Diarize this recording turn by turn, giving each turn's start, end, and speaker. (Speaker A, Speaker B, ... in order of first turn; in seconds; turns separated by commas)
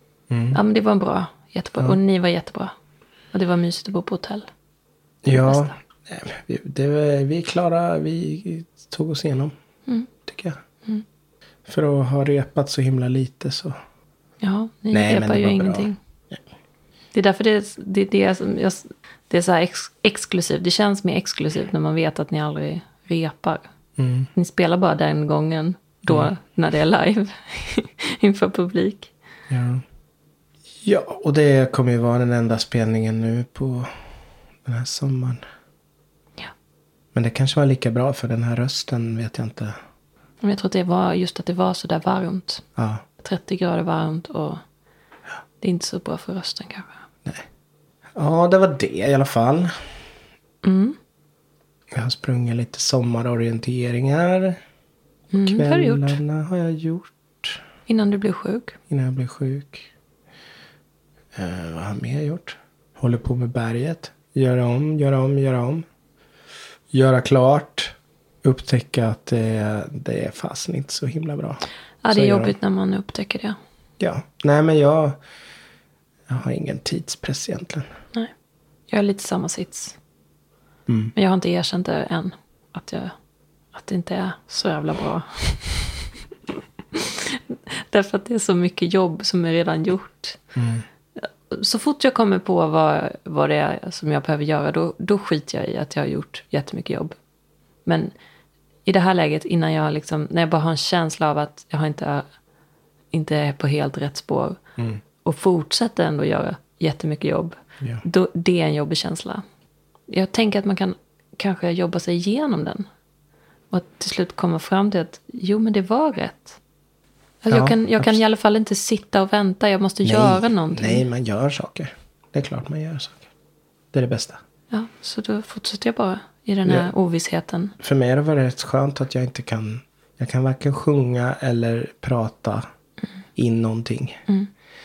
Speaker A: 0.3-0.6, Speaker B: 0.5-2.7, Speaker B: 3.3-4.5, Speaker A: 5.2-9.5, Speaker B: 5.3-5.7, Speaker A: 10.3-10.6, Speaker A: 11.7-13.8, Speaker B: 14.4-16.0, Speaker A: 14.9-16.4, Speaker B: 17.1-23.7, Speaker A: 24.0-24.3, Speaker B: 24.3-29.1, Speaker A: 29.5-29.8, Speaker A: 30.8-34.0, Speaker A: 34.6-35.4, Speaker A: 37.1-39.8, Speaker B: 40.4-42.6, Speaker A: 42.8-43.0, Speaker B: 43.2-44.6, Speaker B: 45.6-47.0, Speaker A: 48.1-49.7, Speaker B: 50.6-51.0, Speaker A: 51.9-54.6, Speaker B: 55.3-56.2, Speaker A: 55.4-57.6, Speaker B: 57.9-58.8, Speaker A: 58.9-59.9, Speaker A: 61.3-65.8, Speaker A: 66.9-72.5, Speaker B: 72.0-73.6, Speaker A: 74.0-75.2, Speaker A: 76.3-77.9, Speaker B: 78.9-80.0, Speaker A: 80.9-81.1, Speaker B: 81.2-83.1, Speaker B: 83.7-86.1, Speaker B: 86.9-90.4, Speaker A: 90.6-90.8, Speaker B: 91.2-97.2, Speaker B: 97.8-98.1, Speaker B: 98.8-102.3, Speaker B: 103.1-104.6, Speaker B: 105.2-109.4, Speaker B: 110.1-112.9, Speaker B: 113.7-116.6, Speaker B: 117.4-121.0, Speaker A: 117.5-118.2, Speaker A: 120.0-123.3, Speaker A: 123.9-124.4, Speaker B: 124.7-127.7, Speaker A: 127.8-132.7, Speaker A: 133.4-134.2